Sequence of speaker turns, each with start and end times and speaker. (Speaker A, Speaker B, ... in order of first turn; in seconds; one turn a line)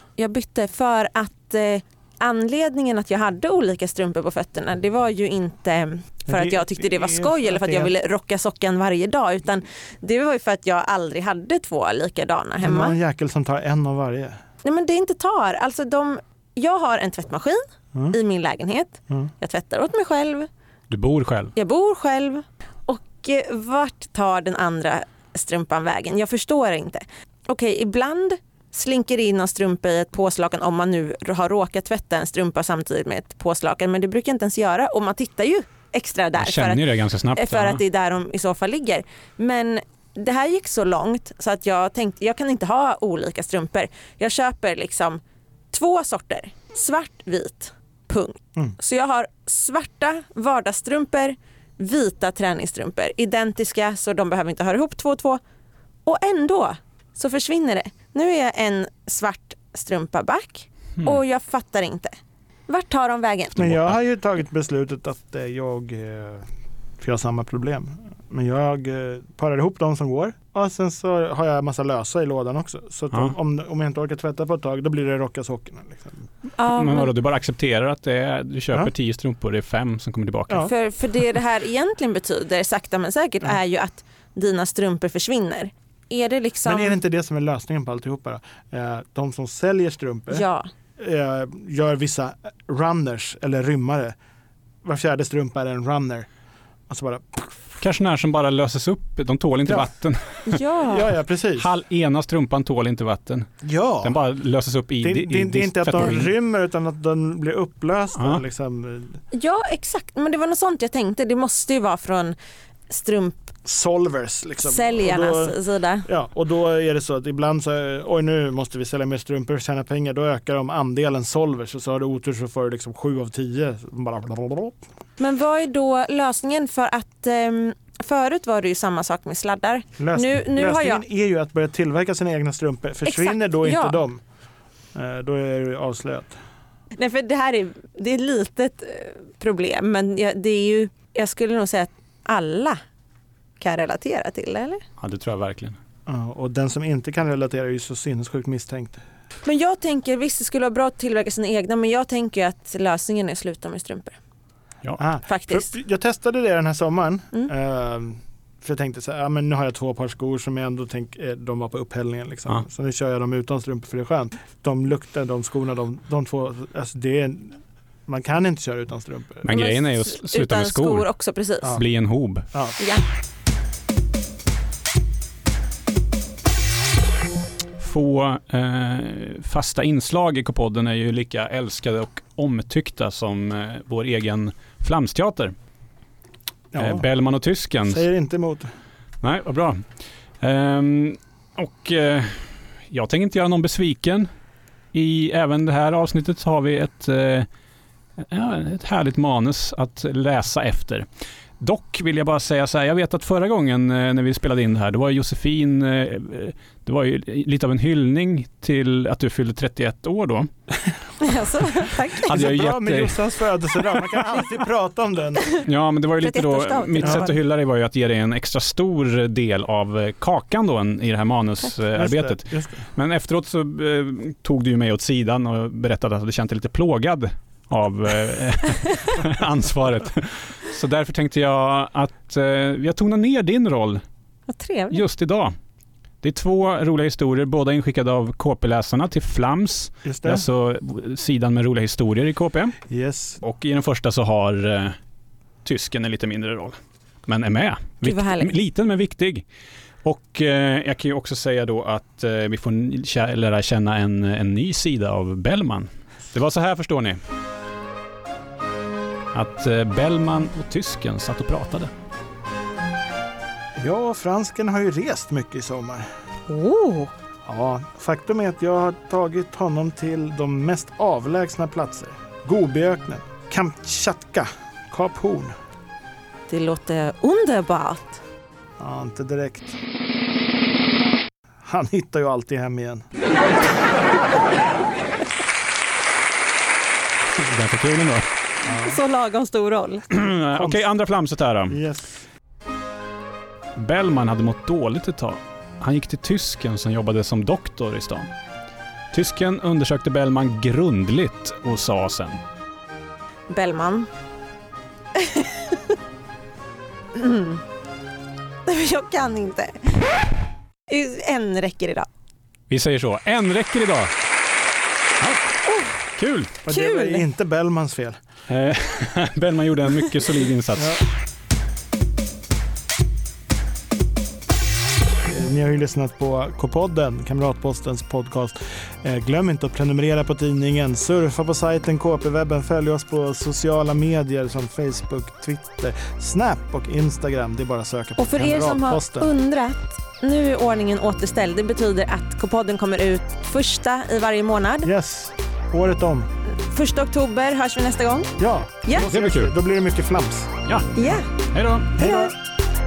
Speaker A: 0.2-12.9
Speaker B: 6.3-7.9
Speaker B: 12.6-14.4
Speaker A: 14.6-20.5
Speaker C: 20.9-21.5
Speaker A: 21.6-45.2
Speaker C: 36.4-37.8
Speaker A: 45.7-55.4
Speaker A: 56.1-62.1
Speaker A: 62.7-63.7
Speaker B: 63.6-66.5
Speaker B: 67.0-76.3
Speaker A: 76.6-77.1
Speaker C: 76.7-80.7
Speaker A: 80.6-87.0
Speaker B: 86.6-90.5
Speaker A: 90.3-90.7
Speaker B: 91.0-94.2
Speaker B: 94.8-96.3
Speaker B: 96.9-97.5
Speaker C: 97.8-100.6
Speaker A: 100.5-101.1
Speaker B: 100.8-101.7
Speaker C: 101.6-103.5
Speaker B: 103.6-104.1
Speaker C: 104.0-106.3
Speaker B: 105.0-109.2
Speaker C: 108.1-108.4
Speaker A: 109.3-112.4
Speaker A: 112.9-113.5
Speaker B: 113.6-124.8
Speaker A: 114.6-116.1
Speaker A: 125.2-131.0
Speaker B: 130.0-134.2
Speaker A: 133.1-134.0
Speaker B: 134.9-136.4
Speaker A: 137.0-142.8
Speaker A: 143.6-144.8
Speaker C: 145.0-145.8
Speaker B: 146.1-149.0
Speaker A: 149.4-154.2
Speaker B: 155.0-169.4
Speaker A: 155.3-155.7
Speaker C: 169.4-171.1
Speaker A: 169.5-171.8
Speaker C: 171.6-172.5
Speaker C: 177.8-185.6
Speaker B: 186.7-187.1
Speaker C: 186.8-188.1
Speaker B: 187.8-188.7
Speaker C: 189.2-189.8
Speaker C: 190.4-194.3
Speaker C: 194.9-197.5
Speaker C: 198.2-201.1
Speaker C: 201.6-210.5
Speaker A: 211.2-212.6
Speaker C: 212.2-213.3
Speaker B: 212.3-215.5
Speaker C: 215.6-234.0
Speaker A: 216.2-217.3
Speaker B: 217.0-217.3
Speaker B: 221.9-222.9
Speaker A: 234.5-235.0
Speaker C: 234.9-235.5
Speaker C: 236.2-242.8
Speaker B: 240.1-240.4
Speaker B: 242.9-243.4
Speaker C: 243.4-245.0
Speaker C: 245.6-249.4
Speaker A: 248.0-248.6
Speaker C: 250.0-257.2
Speaker C: 259.3-261.9
Speaker B: 263.8-266.1
Speaker A: 266.5-267.1
Speaker B: 267.5-275.5
Speaker A: 276.5-278.2
Speaker B: 278.8-279.8
Speaker B: 281.6-283.1
Speaker C: 287.4-288.3
Speaker B: 288.6-289.0
Speaker A: 288.6-290.1
Speaker C: 290.1-291.8
Speaker B: 290.5-290.9
Speaker B: 291.7-292.1
Speaker C: 293.8-298.3
Speaker C: 299.1-302.4
Speaker A: 303.5-304.1
Speaker A: 305.1-305.9
Speaker A: 307.1-307.6
Speaker A: 308.6-310.1
Speaker A: 310.9-312.1
Speaker C: 312.7-314.1
Speaker C: 315.2-315.5
Speaker A: 315.6-315.9
Speaker C: 316.1-316.6
Speaker B: 316.6-318.2
Speaker A: 316.7-317.2
Speaker C: 318.5-321.0
Speaker B: 320.8-321.0
Speaker B: 325.2-339.3
Speaker A: 338.2-344.9
Speaker B: 344.8-346.3
Speaker A: 346.6-349.1
Speaker B: 348.4-350.5
Speaker C: 349.0-349.5
Speaker A: 350.9-351.3
Speaker C: 351.5-352.0
Speaker A: 352.0-352.3
Speaker B: 352.0-352.3